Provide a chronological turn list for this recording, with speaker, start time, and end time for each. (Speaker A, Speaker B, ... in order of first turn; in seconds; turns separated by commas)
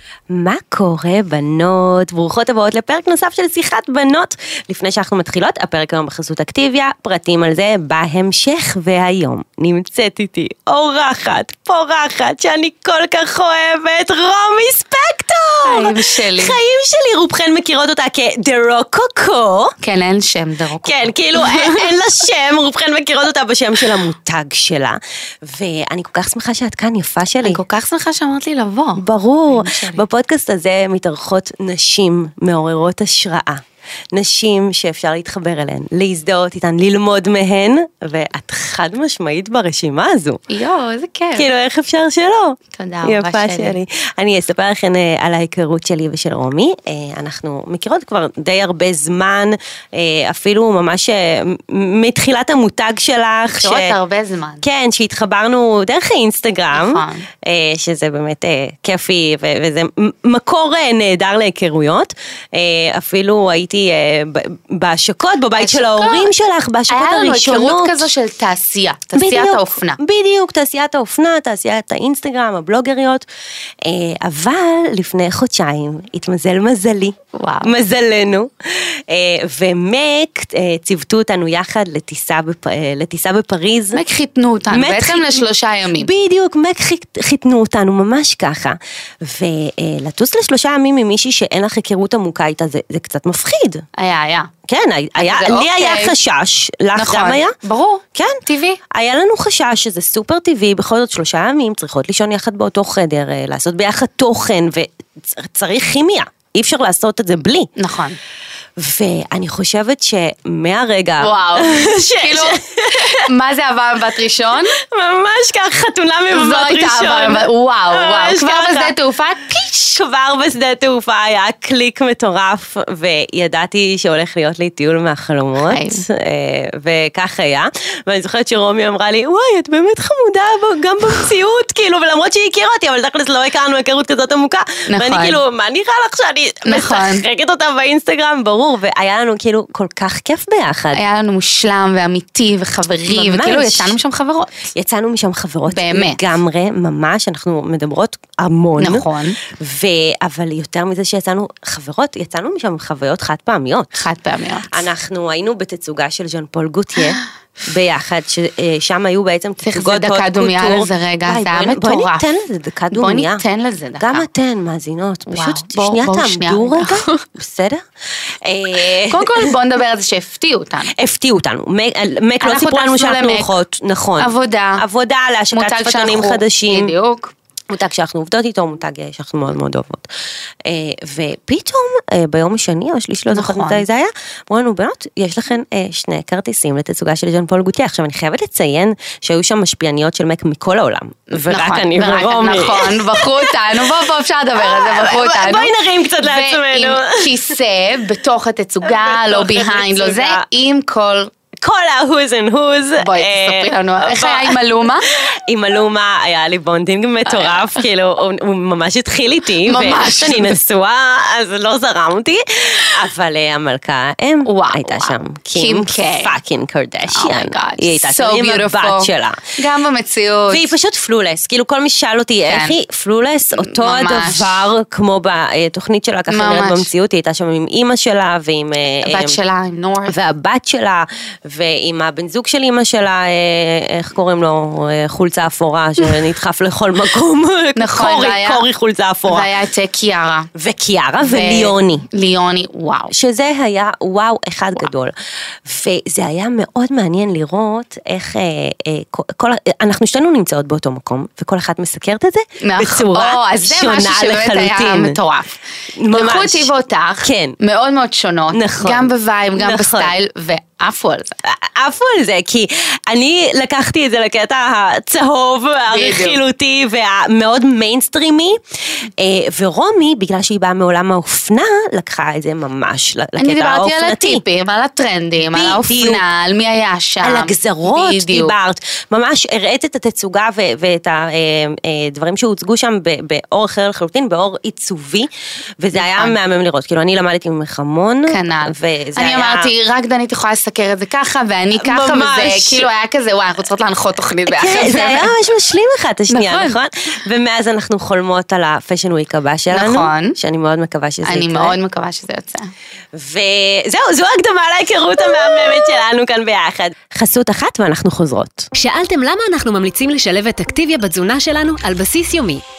Speaker A: 0.3-19.7, Speaker B: 15.6-16.6, Speaker B: 19.8-22.0, Speaker A: 20.8-27.6, Speaker B: 27.4-30.0, Speaker A: 29.0-40.4, Speaker B: 40.5-41.5, Speaker A: 41.4-53.9, Speaker B: 42.7-43.8, Speaker B: 53.5-54.6, Speaker A: 54.6-68.0, Speaker B: 56.7-57.3, Speaker B: 65.5-66.3, Speaker B: 66.9-70.0, Speaker A: 69.1-73.3, Speaker A: 73.8-84.0, Speaker B: 77.3-77.7, Speaker B: 83.9-86.1, Speaker A: 84.7-85.4, Speaker A: 86.0-93.8, Speaker B: 94.0-94.5, Speaker A: 94.7-97.5, Speaker B: 95.2-96.1, Speaker B: 96.9-98.8, Speaker A: 98.1-107.7, Speaker B: 107.8-108.2, Speaker A: 108.8-113.3, Speaker B: 111.2-114.8, Speaker A: 114.8-118.9, Speaker B: 116.3-119.7, Speaker A: 119.5-141.0, Speaker B: 125.7-126.0, Speaker B: 134.9-135.4, Speaker B: 136.7-137.2, Speaker B: 140.9-144.7, Speaker A: 143.1-143.9, Speaker A: 144.7-154.0, Speaker B: 145.7-146.2, Speaker B: 148.8-149.4, Speaker B: 153.9-154.7, Speaker A: 154.7-163.4, Speaker B: 159.6-162.2, Speaker B: 162.9-164.3, Speaker A: 164.0-169.5, Speaker B: 165.3-167.2, Speaker B: 168.7-170.9, Speaker A: 170.9-176.9, Speaker B: 172.4-173.5, Speaker B: 174.2-174.8, Speaker B: 175.5-177.3, Speaker A: 177.7-180.1, Speaker A: 180.6-193.9, Speaker B: 183.3-183.8, Speaker B: 191.3-201.3, Speaker A: 194.6-197.5, Speaker A: 198.8-200.4, Speaker A: 201.6-219.5, Speaker B: 203.0-205.1, Speaker B: 207.3-207.8, Speaker B: 209.6-210.6, Speaker B: 214.4-216.3, Speaker B: 217.1-220.7, Speaker A: 220.5-229.4, Speaker B: 222.5-222.8, Speaker B: 223.5-224.7, Speaker B: 226.3-226.9, Speaker B: 229.0-230.2, Speaker A: 230.1-239.5, Speaker B: 237.8-238.6, Speaker B: 239.3-240.5, Speaker A: 240.5-242.1, Speaker B: 241.2-243.1, Speaker A: 243.1-245.1, Speaker A: 245.6-255.2, Speaker B: 252.6-261.3, Speaker A: 256.0-256.7, Speaker A: 257.2-257.6, Speaker A: 258.5-260.1, Speaker A: 261.4-274.4, Speaker B: 265.9-266.4, Speaker B: 273.4-278.5, Speaker A: 275.5-276.2, Speaker A: 277.2-285.3, Speaker A: 285.8-289.7, Speaker B: 285.9-286.3, Speaker B: 288.3-295.3, Speaker A: 291.7-292.9, Speaker A: 294.4-301.8, Speaker B: 296.3-296.7, Speaker B: 299.7-300.4, Speaker B: 301.2-302.7, Speaker A: 303.1-308.7, Speaker C: 308.7-312.6